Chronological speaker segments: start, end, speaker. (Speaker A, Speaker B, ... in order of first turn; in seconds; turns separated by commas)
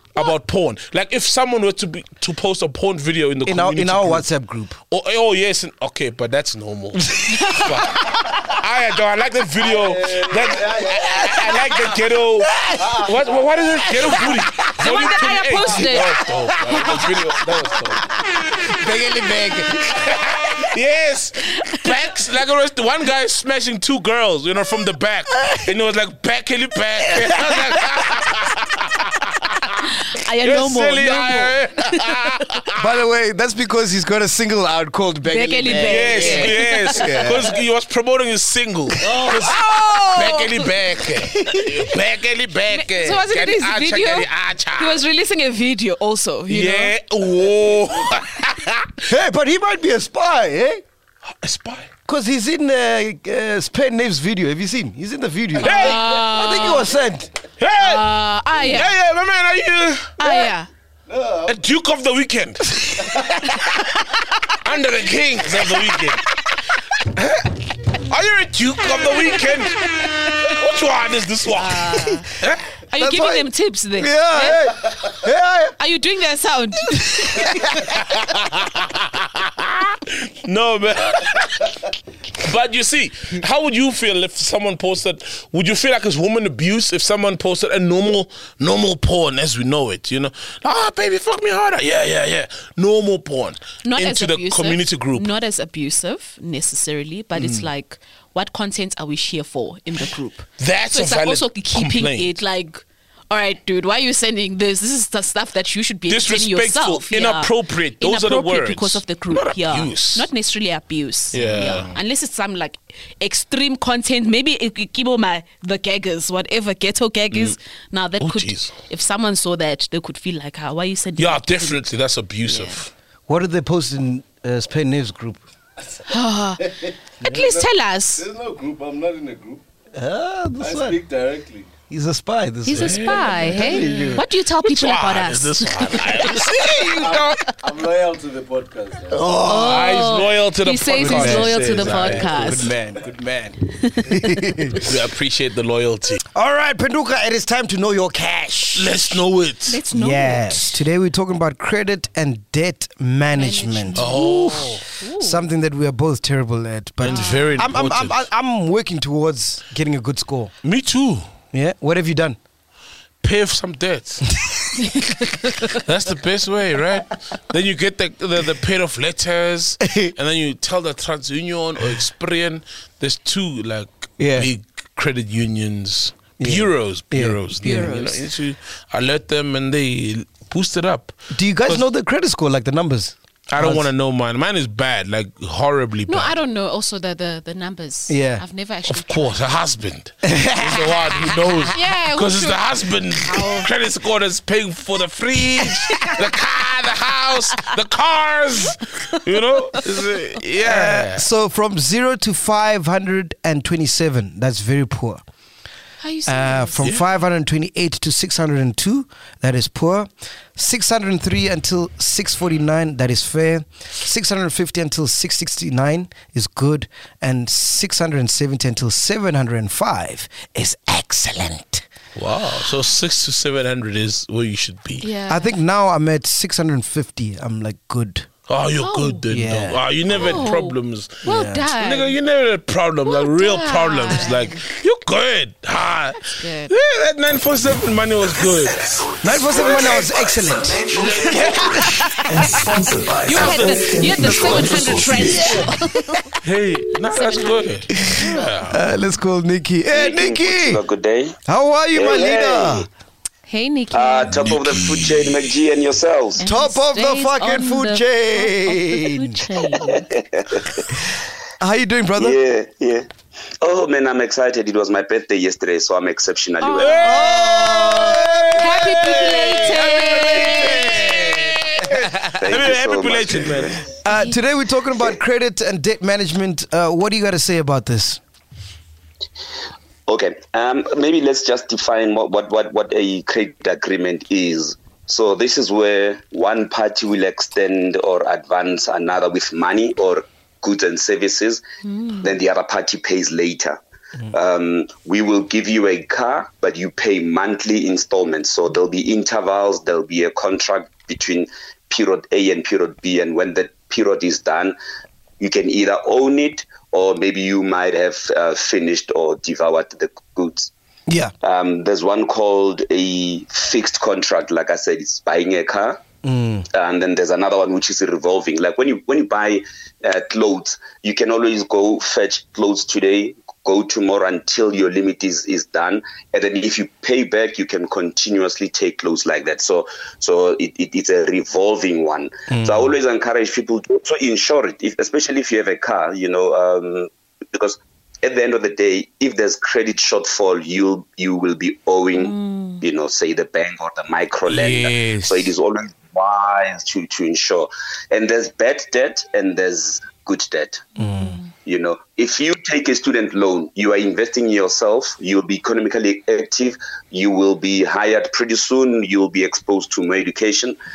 Speaker A: 0.1-4.3, Speaker B: 3.5-4.8, Speaker A: 4.9-18.1, Speaker C: 7.3-8.0, Speaker D: 9.7-11.2, Speaker B: 10.9-11.7, Speaker B: 12.4-13.1, Speaker B: 13.8-14.9, Speaker C: 14.8-16.2, Speaker B: 16.5-17.3, Speaker B: 18.6-20.2, Speaker A: 20.0-29.8, Speaker B: 27.4-27.8, Speaker C: 30.0-32.1, Speaker A: 30.4-32.8, Speaker B: 32.8-37.5, Speaker C: 35.2-37.1, Speaker A: 35.7-45.0, Speaker C: 39.1-40.7, Speaker B: 41.2-41.7, Speaker C: 42.7-47.0, Speaker A: 46.5-49.0, Speaker B: 49.1-50.8, Speaker A: 51.4-51.9, Speaker B: 52.1-57.3, Speaker C: 55.6-56.9, Speaker A: 55.6-56.1, Speaker A: 57.6-60.2, Speaker C: 57.8-58.9, Speaker C: 60.2-60.7, Speaker D: 61.1-61.6, Speaker A: 61.5-63.5, Speaker A: 64.6-66.2, Speaker A: 67.1-72.7, Speaker C: 71.5-72.3, Speaker C: 72.9-74.7, Speaker B: 73.0-75.8, Speaker C: 75.8-77.9, Speaker A: 77.9-81.8, Speaker A: 82.4-95.3, Speaker C: 93.8-121.8, Speaker A: 97.4-97.7, Speaker A: 100.6-102.3, Speaker A: 106.1-110.3, Speaker A: 111.3-112.0, Speaker A: 117.3-117.6, Speaker A: 118.2-118.7, Speaker A: 121.2-122.9, Speaker C: 122.5-122.8, Speaker B: 123.3-125.4, Speaker C: 126.1-128.3, Speaker D: 126.6-129.6, Speaker B: 129.9-131.0, Speaker D: 130.6-131.7, Speaker B: 131.9-134.3, Speaker C: 132.7-137.5, Speaker A: 132.8-137.4, Speaker D: 137.0-139.3, Speaker B: 139.1-140.1, Speaker C: 139.4-142.7, Speaker A: 139.6-142.5, Speaker B: 141.0-144.8, Speaker C: 143.8-144.3, Speaker A: 144.8-146.2, Speaker B: 146.3-149.2, Speaker A: 148.7-149.8, Speaker C: 149.7-150.8, Speaker B: 149.9-160.5, Speaker C: 153.4-155.4, Speaker A: 153.9-154.8, Speaker A: 157.0-158.2, Speaker C: 157.1-157.6, Speaker A: 160.6-161.3, Speaker B: 161.5-162.4, Speaker A: 163.2-164.3, Speaker B: 164.4-164.7, Speaker A: 165.7-181.9, Speaker B: 169.8-170.1, Speaker B: 174.2-174.5, Speaker B: 176.4-178.0, Speaker C: 177.6-178.2, Speaker B: 181.3-183.9, Speaker A: 183.5-186.3, Speaker C: 186.1-189.4, Speaker B: 188.1-188.4, Speaker A: 188.9-201.3, Speaker B: 190.2-191.7, Speaker C: 191.7-193.7, Speaker C: 195.6-196.2, Speaker B: 200.6-205.2, Speaker C: 206.0-206.8, Speaker B: 206.3-221.9, Speaker A: 222.2-225.1, Speaker C: 225.0-225.5, Speaker B: 225.3-228.3, Speaker A: 228.5-238.9, Speaker C: 228.8-229.2, Speaker B: 229.3-230.3, Speaker C: 230.1-232.2, Speaker B: 231.2-231.7, Speaker C: 233.1-234.6, Speaker C: 236.2-236.7, Speaker B: 239.2-246.2, Speaker A: 239.6-240.0, Speaker A: 241.1-242.4, Speaker C: 243.2-246.3, Speaker A: 243.3-245.2, Speaker A: 246.4-248.8, Speaker C: 247.1-248.0, Speaker B: 248.0-250.8, Speaker E: 249.9-251.4, Speaker B: 251.5-252.9, Speaker E: 251.9-252.9, Speaker C: 253.5-254.5, Speaker E: 253.9-256.4, Speaker A: 254.5-254.8, Speaker B: 256.4-259.9, Speaker C: 256.4-260.1, Speaker E: 259.9-260.8, Speaker B: 260.9-262.4, Speaker E: 262.2-263.1, Speaker E: 263.6-267.0, Speaker C: 266.6-271.1, Speaker A: 266.8-273.8, Speaker B: 267.0-269.5, Speaker B: 270.4-271.0, Speaker E: 272.3-273.8, Speaker B: 274.0-278.2, Speaker C: 274.1-274.4, Speaker E: 280.1-291.6, Speaker C: 291.9-292.3, Speaker E: 292.2-293.8, Speaker E: 294.3-304.8, Speaker E: 305.4-310.7, Speaker B: 311.1-311.3, Speaker E: 311.4-316.0, Speaker B: 316.2-316.7, Speaker E: 316.7-350.9, Speaker B: 332.5-332.9, Speaker C: 342.1-342.8, Speaker A: 344.5-345.5, Speaker B: 351.0-351.4, Speaker C: 351.2-351.5, Speaker E: 351.6-360.8